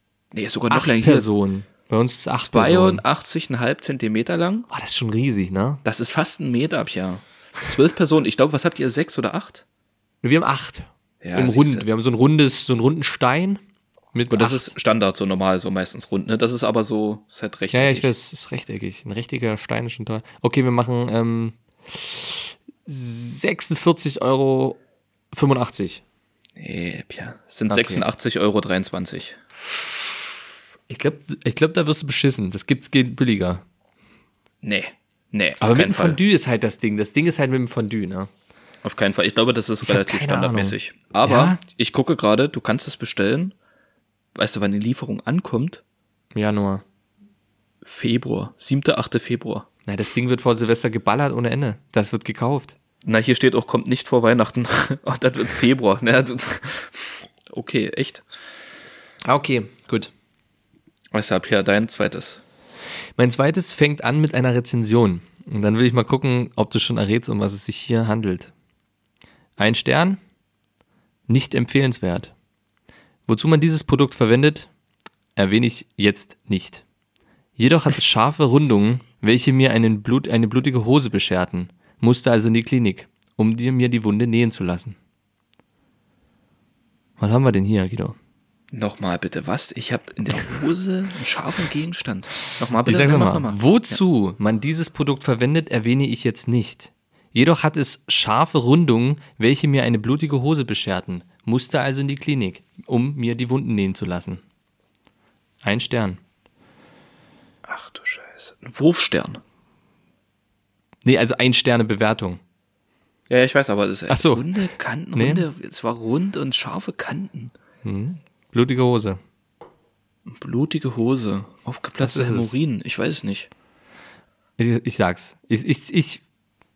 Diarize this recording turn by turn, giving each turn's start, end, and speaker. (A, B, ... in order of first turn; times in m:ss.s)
0:00.3-0:01.3 A
0:00.7-0:03.0 B
0:02.3-0:04.7 A
0:04.7-0:05.8 B
0:05.8-0:09.6 A
0:10.2-0:13.6 B
0:11.2-0:11.8 A
0:14.1-0:14.7 B
0:14.3-0:18.1 A
0:17.7-0:24.8 B
0:25.3-0:26.0 B
0:26.6-0:29.4 A
0:27.7-0:28.0 B
0:30.9-0:33.6 B
0:34.6-0:36.2 A
0:35.6-0:38.3 B
0:38.8-0:43.5 A
0:39.8-0:41.6 B
0:44.3-0:45.8 A
0:46.3-0:46.8 B
0:47.8-0:49.6 A
0:49.8-0:52.8 B
0:53.0-0:58.2 A
0:59.2-1:00.1 B
1:01.1-1:02.4 A
1:03.2-1:08.5 B
1:09.6-1:10.2 B
1:11.3-1:12.3 B
1:13.3-1:14.7 B
1:15.4-1:16.8 B
1:17.6-1:25.0 B
1:27.2-1:28.2 B
1:28.7-1:34.0 A
1:32.8-1:44.4 B
1:45.6-1:46.2 B
1:47.6-1:49.4 A
1:51.0-1:52.4 B
1:53.3-1:57.5 A
1:54.1-1:55.4 B
1:57.8-1:59.2 B
2:00.2-2:03.5 A
2:02.0-2:02.5 B
2:04.6-2:06.2 B